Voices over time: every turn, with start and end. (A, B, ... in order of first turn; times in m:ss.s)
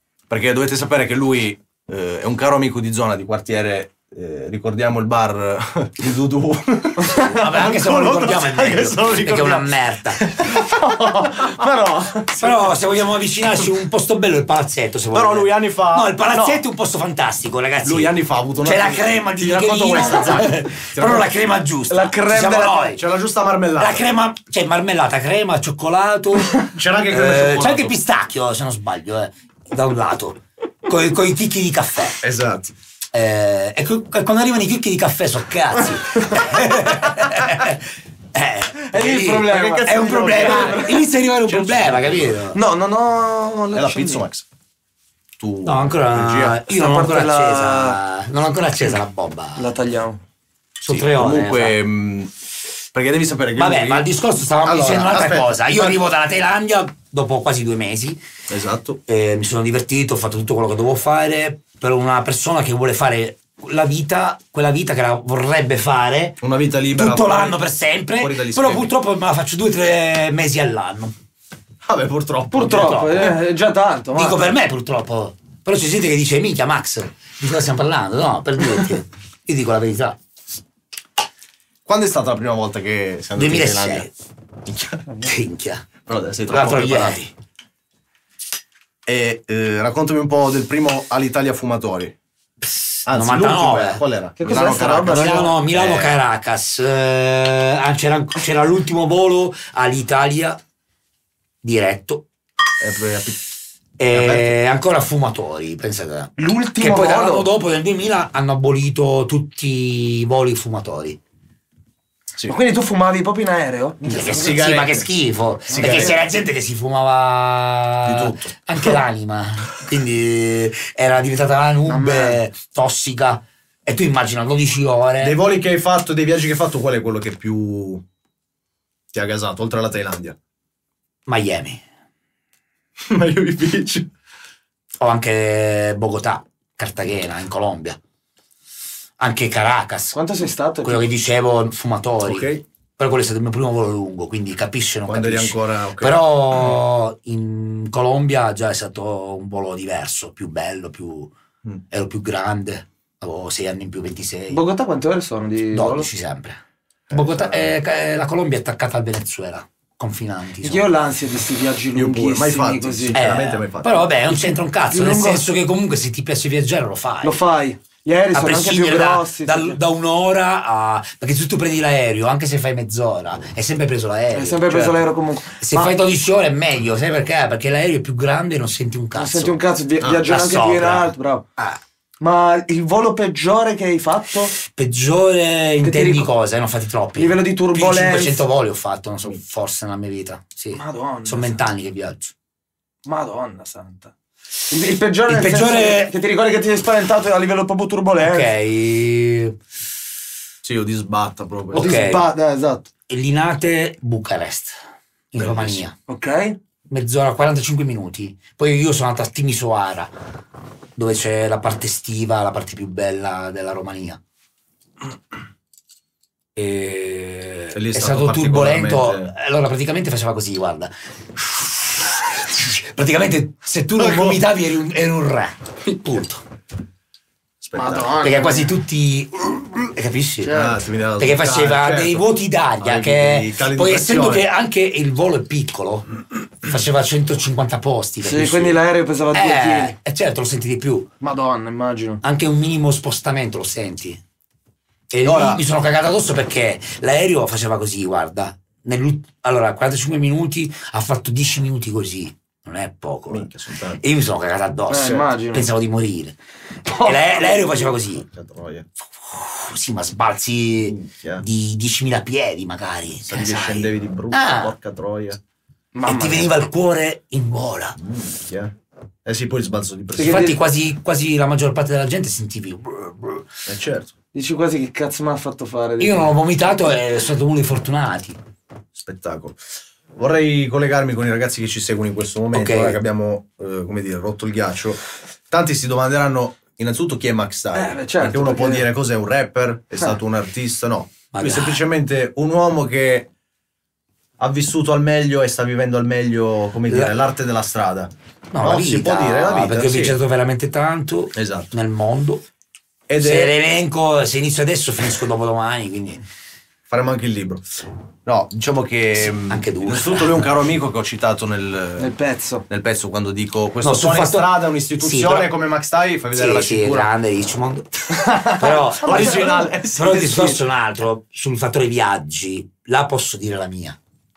0:00.3-0:12.5 A
0:07.2-0:10.2 B
0:12.4-0:23.0 B
0:15.1-0:16.6 A
0:17.8-0:21.3 A
0:21.9-0:22.9 C
0:23.0-0:24.1 A
0:23.8-0:32.2 B
0:26.6-0:28.0 A
0:32.2-0:32.7 A
0:33.1-0:42.6 B
0:38.9-0:41.0 C
0:38.9-0:42.4 A
0:42.5-0:44.2 C
0:43.7-0:44.4 A
0:45.4-0:46.6 A
0:45.6-0:49.7 B
0:46.7-0:48.0 C
0:49.6-0:50.2 C
0:50.8-0:51.8 B
0:50.8-0:52.3 A
0:52.9-0:54.1 A
0:53.6-0:58.2 B
0:54.6-0:56.0 A
0:58.5-0:59.0 A
0:59.1-1:06.4 B
1:06.4-1:07.6 A
1:06.9-1:11.1 B
1:08.2-1:08.9 A
1:11.8-1:13.3 A
1:12.5-1:14.4 C
1:12.6-1:13.3 B
1:14.1-1:20.2 B
1:21.8-1:24.1 A
1:23.4-1:24.1 B
1:24.7-1:25.0 A
1:25.2-1:25.9 B
1:26.0-1:27.2 A
1:26.4-1:27.3 B
1:29.0-1:32.1 A
1:32.6-1:34.0 B
1:33.0-1:36.2 A
1:34.4-1:35.5 C
1:35.0-1:40.6 B
1:41.6-1:42.2 B
1:42.8-1:43.4 A
1:44.0-1:51.2 B
1:44.1-1:44.6 A
1:46.4-1:47.5 C
1:52.5-1:54.3 C
1:54.1-2:05.4 B
1:54.1-1:55.0 A
1:55.7-1:56.1 C
1:55.7-1:56.1 A
1:58.0-1:58.5 A
2:01.9-2:02.4 C
2:05.2-2:08.0 A
2:09.1-2:10.4 A
2:11.3-2:11.8 B
2:13.0-2:14.1 A
2:15.0-2:18.0 B
2:19.2-2:20.2 B
2:20.1-2:21.0 C
2:20.8-2:31.3 B
2:22.2-2:22.6 A
2:25.1-2:26.8 A
2:31.9-2:34.6 B
2:34.5-2:36.1 C
2:35.7-2:40.9 B
2:37.1-2:37.7 A
2:40.6-2:43.2 C
2:41.9-2:44.1 A
2:43.1-2:47.4 B
2:44.9-2:45.4 C
2:47.2-2:49.8 C
2:48.3-2:54.8 B
2:54.3-2:55.9 C
2:54.7-2:54.9 A
2:55.6-2:59.6 B
2:59.1-3:01.4 C
3:00.0-3:00.3 A
3:00.2-3:01.8 B
3:02.2-3:04.6 C
3:04.6-3:12.3 B
3:05.8-3:06.3 C
3:07.2-3:08.4 C
3:10.7-3:11.6 C
3:13.0-3:14.1 C
3:14.7-3:18.5 C
3:15.3-3:16.1 B
3:18.2-3:19.6 B
3:20.6-3:22.0 A
3:21.7-3:22.9 C
3:21.7-3:22.2 B
3:23.1-3:24.8 B
3:25.3-3:25.9 B
3:26.1-3:26.6 C
3:26.9-3:30.1 B
3:31.0-3:34.2 B
3:36.6-3:46.4 B
3:37.7-3:39.3 A
3:44.0-3:44.5 A
3:47.6-3:48.2 A
3:47.7-3:48.7 C
3:48.2-3:50.6 B
3:50.4-3:50.8 C
3:50.5-3:52.2 A
3:51.2-3:56.1 B
3:52.8-3:54.4 A
3:56.6-3:58.8 B
3:58.2-3:59.9 C
3:59.3-4:01.1 B
4:01.2-4:02.2 C
4:02.2-4:04.2 B
4:05.1-4:16.4 B
4:05.2-4:05.6 A
4:13.3-4:14.0 A
4:14.9-4:15.7 C
4:16.9-4:18.3 B
4:17.0-4:17.5 C
4:18.3-4:18.8 A
4:19.2-4:24.7 B
4:20.8-4:21.4 A
4:23.3-4:25.4 A
4:25.9-4:26.5 C
4:26.0-4:28.0 B
4:28.0-4:28.7 A
4:29.2-4:30.5 A
4:30.2-4:30.6 C
4:30.2-4:33.5 B
4:33.6-4:34.1 A
4:34.3-4:36.3 C
4:36.0-4:38.4 B
4:38.9-4:39.6 A
4:40.2-4:53.3 A
4:42.5-4:43.0 B
4:47.7-4:48.9 C
4:51.3-4:51.8 B
4:54.4-5:00.2 A
4:56.9-4:57.2 B
4:58.5-5:02.4 B
5:01.3-5:01.7 A
5:03.1-5:03.5 A
5:03.2-5:06.2 B
5:06.9-5:12.1 A
5:09.3-5:10.4 B
5:12.0-5:12.6 C
5:12.7-5:17.1 A
5:13.8-5:15.5 B
5:16.3-5:24.0 B
5:18.3-5:20.6 A
5:18.6-5:19.7 C